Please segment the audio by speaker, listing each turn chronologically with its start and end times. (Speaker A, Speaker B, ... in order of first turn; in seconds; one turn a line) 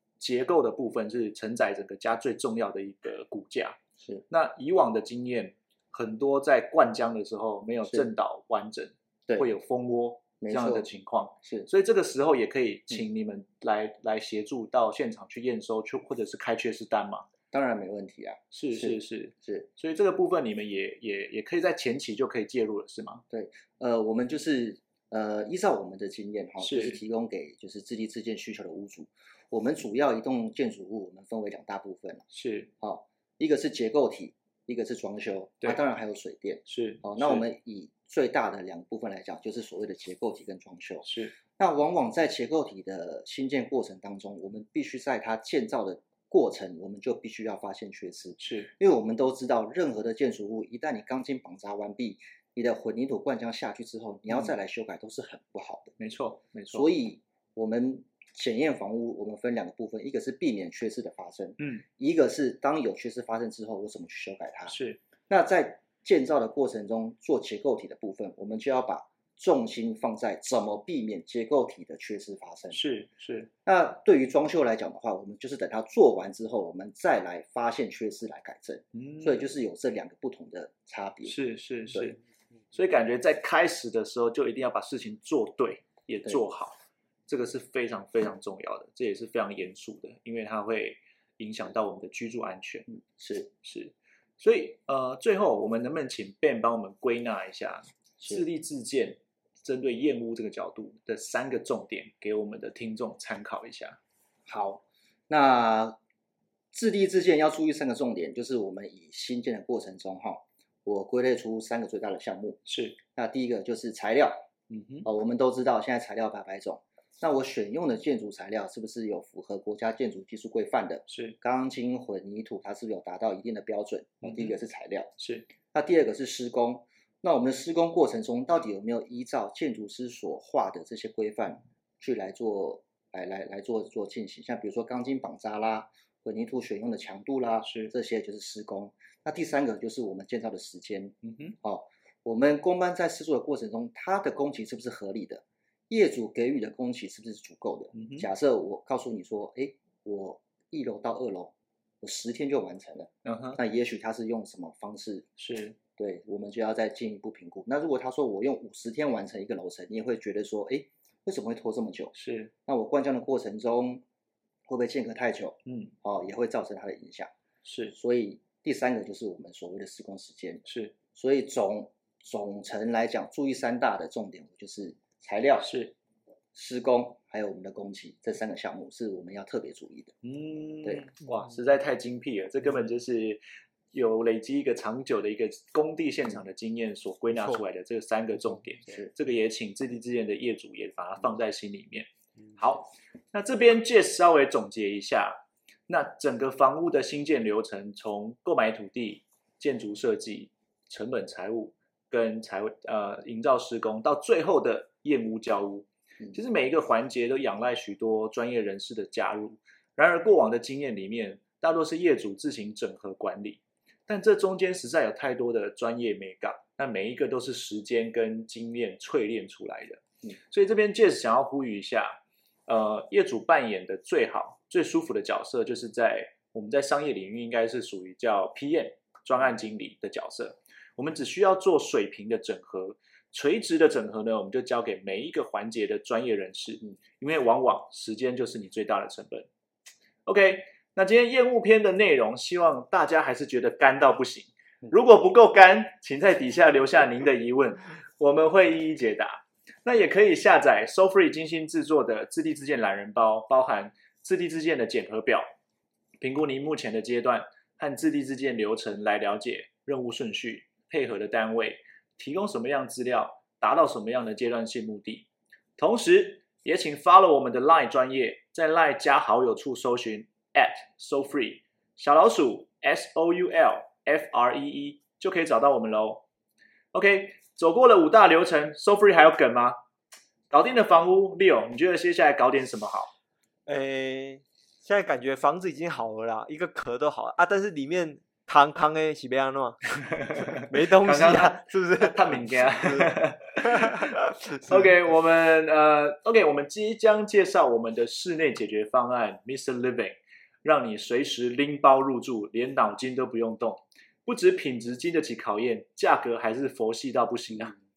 Speaker A: 0.2-3.8
Speaker A: 4.3-17.3
Speaker B: 10.4-10.9
Speaker B: 17.5-19.7
Speaker A: 18.5-23.2
Speaker B: 23.3-32.2
Speaker A: 26.6-27.0
Speaker A: 32.3-32.7
Speaker B: 32.8-55.9
Speaker A: 36.6-37.4
Speaker A: 41.0-41.4
Speaker A: 48.4-48.7
Speaker A: 56.0-56.9
Speaker B: 56.7-64.7
Speaker A: 64.7-65.0
Speaker B: 65.3-72.8
Speaker A: 72.7-73.5
Speaker B: 73.7-81.3
Speaker A: 78.9-79.5
Speaker A: 81.2-82.2
Speaker A: 82.7-92.9
Speaker B: 92.9-93.5
Speaker A: 93.6-104.0
Speaker B: 104.5-106.0
Speaker B: 106.7-112.6
Speaker A: 112.7-113.0
Speaker B: 113.1-114.5
Speaker A: 114.7-115.1
Speaker B: 115.0-125.1
Speaker A: 121.1-121.3
Speaker A: 124.2-124.5
Speaker A: 125.2-125.5
Speaker B: 125.7-155.3
Speaker A: 137.6-137.9
Speaker A: 141.2-141.6
Speaker A: 147.9-148.3
Speaker A: 153.2-153.6
Speaker A: 155.4-155.8
Speaker B: 156.0-162.1
Speaker A: 162.1-162.5
Speaker B: 162.7-164.0
Speaker B: 164.7-167.3
Speaker A: 165.7-165.9
Speaker A: 167.6-167.9
Speaker B: 167.9-175.7
Speaker A: 170.7-170.9
Speaker A: 175.6-175.9
Speaker B: 176.5-180.2
Speaker A: 180.2-183.4
Speaker A: 183.9-222.1
Speaker A: 222.7-239.5
Speaker A: 240.2-255.4
Speaker A: 256.2-276.2
Speaker A: 276.9-279.8
Speaker A: 280.5-283.1
Speaker C: 283.7-294.9
Speaker A: 290.1-307.7